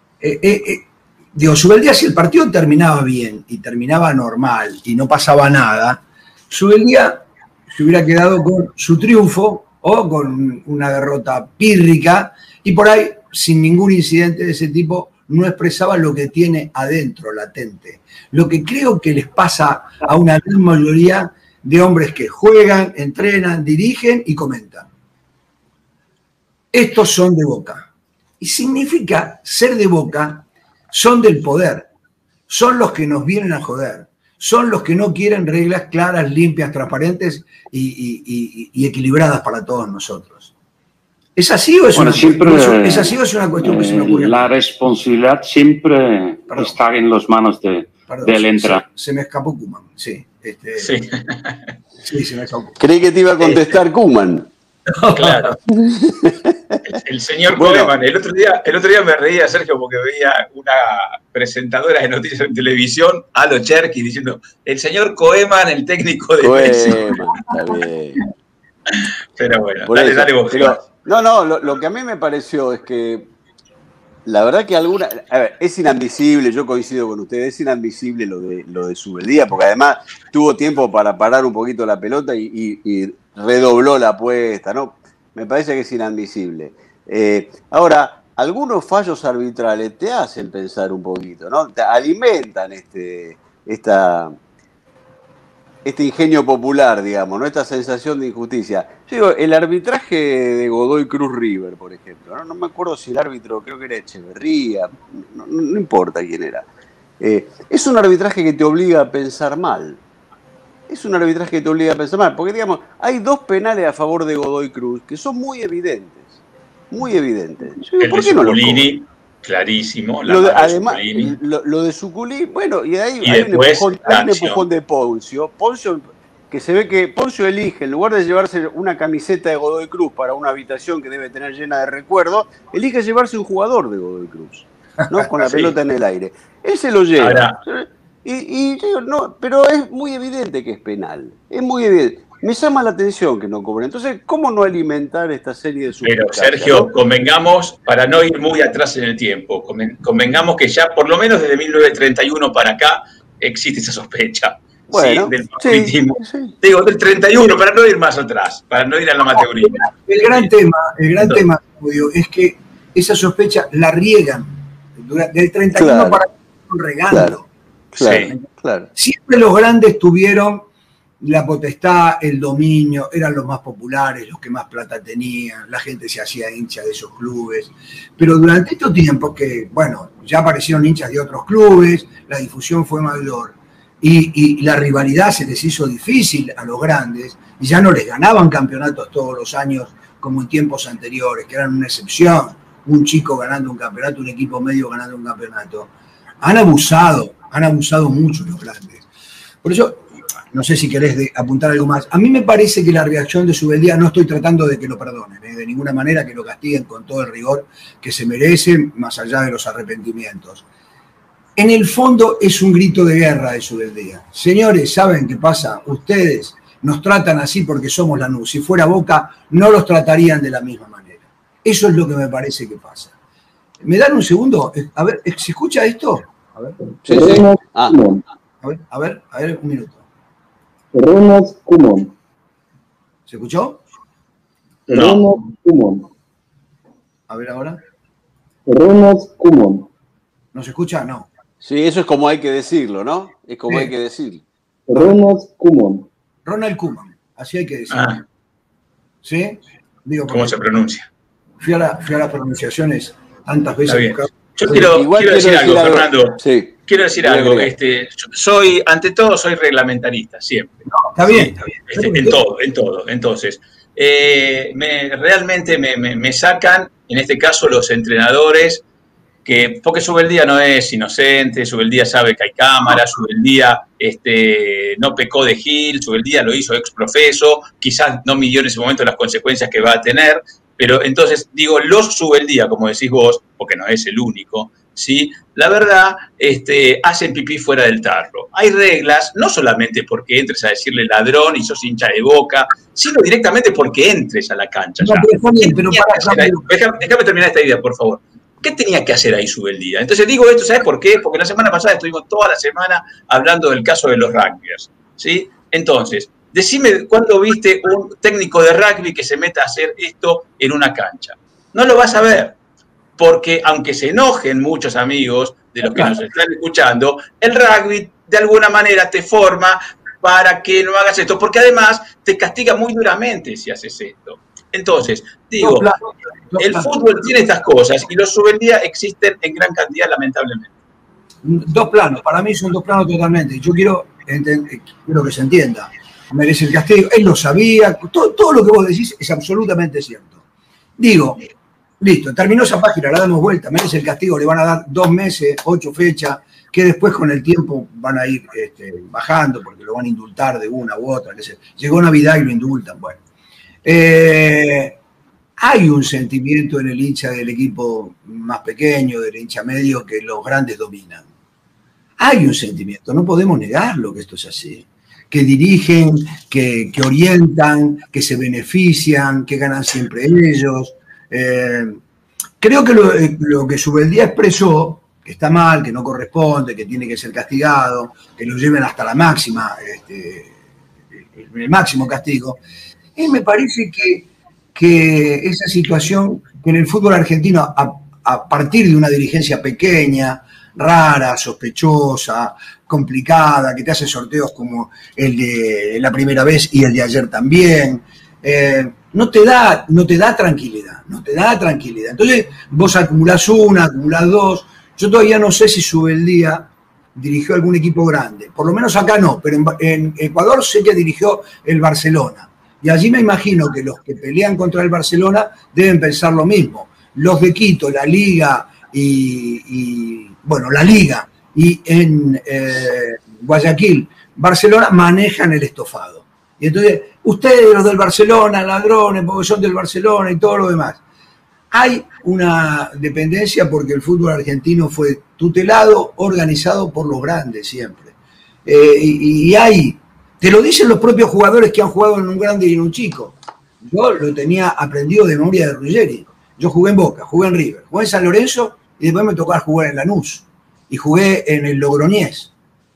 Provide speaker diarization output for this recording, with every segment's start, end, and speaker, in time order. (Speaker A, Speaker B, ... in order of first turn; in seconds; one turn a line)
Speaker A: 0.2-24.9
Speaker A: 26.7-27.9
Speaker A: 28.4-31.9
Speaker A: 32.5-40.5
Speaker A: 41.4-44.5
Speaker B: 41.9-48.8
Speaker A: 46.5-46.7
Speaker A: 48.1-50.9
Speaker C: 50.8-51.7
Speaker A: 52.0-52.8
Speaker D: 52.8-54.5
Speaker C: 53.4-53.8
Speaker A: 54.9-55.4
Speaker C: 55.1-55.6
Speaker D: 55.8-56.8
Speaker C: 56.8-67.3
Speaker D: 57.5-57.9
Speaker D: 66.4-68.2
Speaker C: 69.4-70.7
Speaker D: 69.8-73.3
Speaker D: 74.2-94.4
Speaker D: 95.8-106.7
Speaker D: 107.2-110.0
Speaker D: 110.9-116.3
Speaker D: 116.9-118.9
Speaker C: 118.0-121.3
Speaker D: 120.2-146.9
Speaker C: 123.2-124.6
Speaker C: 135.4-135.7
Speaker C: 137.2-137.6
Speaker C: 146.0-160.5
Speaker D: 154.9-156.5
Speaker A: 160.0-167.5
Speaker D: 165.7-166.2
Speaker D: 167.1-167.3
Speaker D: 167.9-168.9
Speaker C: 168.0-168.3
Speaker A: 168.9-170.7
Speaker A: 171.2-199.0
Speaker A: 199.6-210.6
Speaker A: 211.6-223.1
Speaker A: 223.8-226.8
Speaker D: 227.0-228.0
Speaker E: 227.1-228.2
Speaker A: 228.6-230.0
Speaker E: 230.9-232.1
Speaker A: 233.3-233.8
Speaker E: 234.9-236.1
Speaker C: 234.9-235.3
Speaker A: 237.3-237.8
Speaker E: 238.7-239.9
Speaker A: 240.5-241.3
Speaker D: 241.6-244.4
Speaker E: 244.9-246.1
Speaker A: 246.4-248.2
Speaker C: 247.9-248.2
Speaker A: 249.2-250.6
Speaker C: 250.3-251.1
Speaker A: 251.6-254.3
Speaker C: 253.9-268.8
Speaker D: 254.7-257.7
Speaker A: 261.0-262.4
Speaker C: 269.4-312.6
Speaker A: 295.0-296.6
Speaker C: 313.2-325.9
Speaker A: 325.6-326.9
Speaker C: 326.6-330.7
Speaker A: 331.4-340.4
Speaker A: 341.0-341.5
Speaker A: 342.0-353.2
Speaker A: 353.8-355.0
Speaker A: 355.6-361.3
Speaker A: 362.2-372.0
Speaker A: 372.6-380.6
Speaker A: 381.2-382.6
Speaker A: 383.1-431.0
Speaker A: 431.7-438.1
Speaker A: 438.6-452.5